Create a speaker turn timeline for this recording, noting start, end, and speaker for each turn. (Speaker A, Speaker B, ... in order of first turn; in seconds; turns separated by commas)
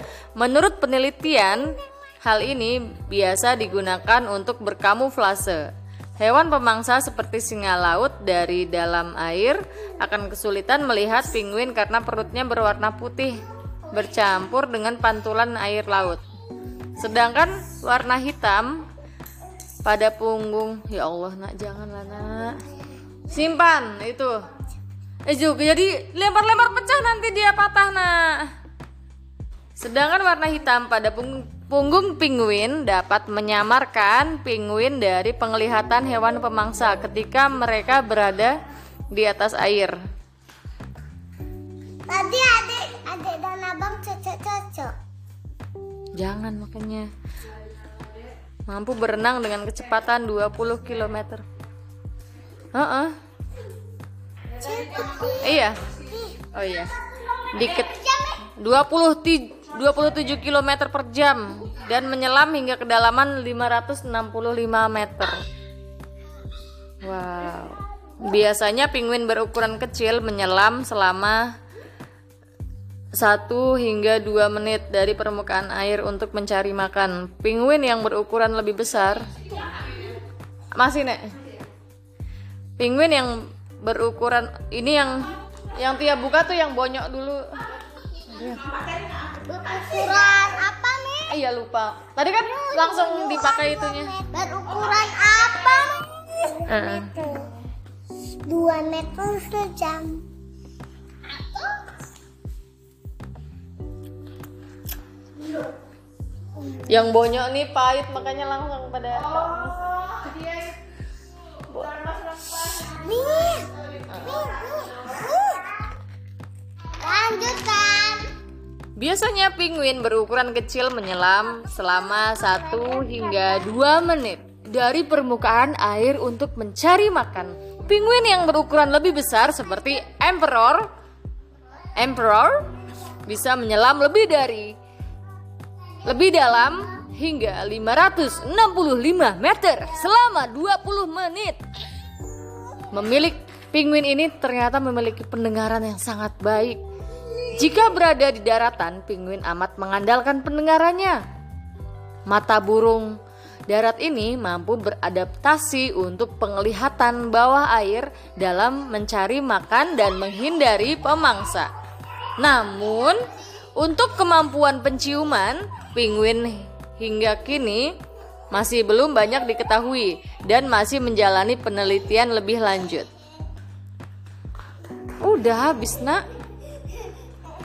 Speaker A: 0.4-5.6, Speaker A: 6.2-16.2, Speaker A: 17.0-18.8, Speaker A: 19.8-22.6, Speaker A: 23.3-24.4, Speaker A: 25.3-28.5, Speaker A: 29.8-38.5, Speaker A: 39.1-40.0, Speaker B: 42.1-44.9, Speaker A: 46.1-47.1, Speaker A: 48.7-51.4, Speaker A: 52.7-53.1, Speaker B: 54.6-55.6, Speaker A: 55.3-55.8, Speaker B: 56.1-56.3, Speaker A: 56.5-56.9, Speaker A: 57.5-65.4, Speaker B: 57.8-58.4, Speaker A: 67.0-71.5, Speaker A: 73.2-79.2, Speaker A: 80.8-81.2, Speaker A: 82.8-87.4, Speaker A: 88.3-88.6, Speaker B: 89.4-91.4, Speaker A: 91.3-94.2, Speaker B: 92.4-97.5, Speaker A: 96.7-97.1, Speaker B: 98.4-100.2, Speaker B: 101.3-101.8, Speaker A: 106.8-110.0, Speaker A: 111.7-112.0, Speaker B: 112.8-115.7, Speaker B: 117.0-118.3, Speaker A: 119.0-130.9, Speaker B: 122.8-123.2, Speaker A: 131.9-132.6, Speaker A: 133.2-134.7, Speaker A: 136.0-141.6, Speaker A: 142.9-146.8, Speaker A: 147.3-151.2, Speaker A: 152.3-153.1, Speaker A: 153.7-161.7, Speaker A: 162.4-163.2, Speaker A: 163.8-167.9, Speaker A: 168.5-173.1, Speaker A: 175.2-176.2